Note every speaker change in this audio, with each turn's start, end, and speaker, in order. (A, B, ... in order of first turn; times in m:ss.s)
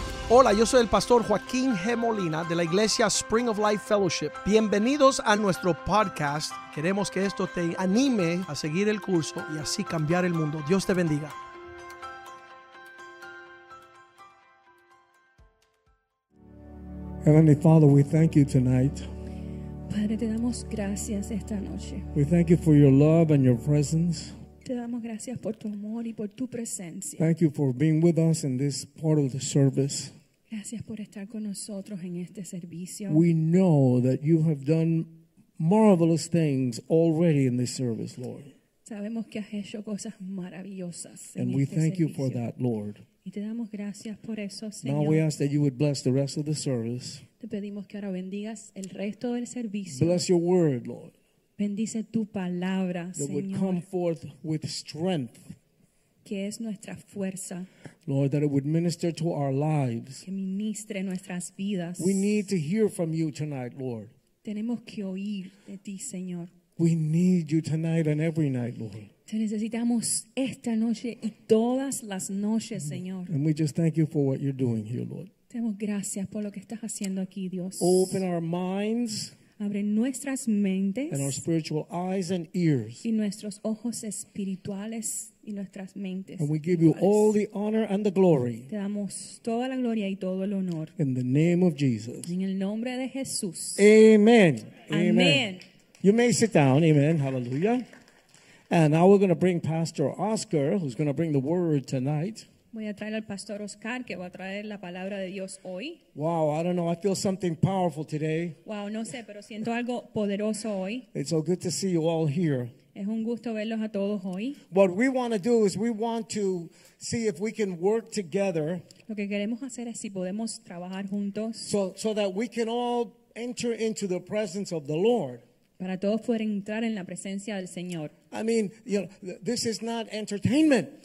0:00.3-0:11.4 A
0:17.2-0:19.1 B
0:19.9-0:22.1 C
0:22.1-0:24.4 B
0:24.6-0:27.3 C
0:27.2-0:30.2 B
0:30.5-0:33.2 C
0:33.1-0:38.5 B
0:38.8-0:42.4 C
0:41.4-0:43.0 B
0:43.2-0:45.2 C
0:44.8-0:47.2 B
0:47.4-0:50.2 C
0:49.9-0:51.1 B
0:51.6-0:53.8 C
0:53.2-0:55.6 B
0:56.2-0:57.7 C
0:58.1-1:00.2 B
1:00.2-1:02.2 C
1:02.0-1:04.1 B
1:04.4-1:06.5 C
1:06.8-1:09.1 B
1:09.3-1:13.3 C
1:13.3-1:15.3 B
1:15.5-1:18.2 C
1:17.8-1:19.3 B
1:19.6-1:21.4 C
1:21.1-1:23.0 B
1:23.0-1:27.3 C
1:26.4-1:28.7 B
1:28.7-1:30.9 C
1:31.0-1:32.3 B
1:32.2-1:33.9 C
1:33.8-1:35.5 B
1:34.9-1:35.6 C
1:36.0-1:37.8 B
1:38.7-1:42.5 B
1:42.7-1:46.0 C
1:46.2-1:48.6 B
1:48.6-1:51.1 C
1:51.1-1:52.7 B
1:53.0-1:54.6 C
1:54.7-1:58.8 B
1:59.1-2:01.7 C
2:01.6-2:05.4 B
2:05.8-2:08.1 C
2:08.3-2:11.0 B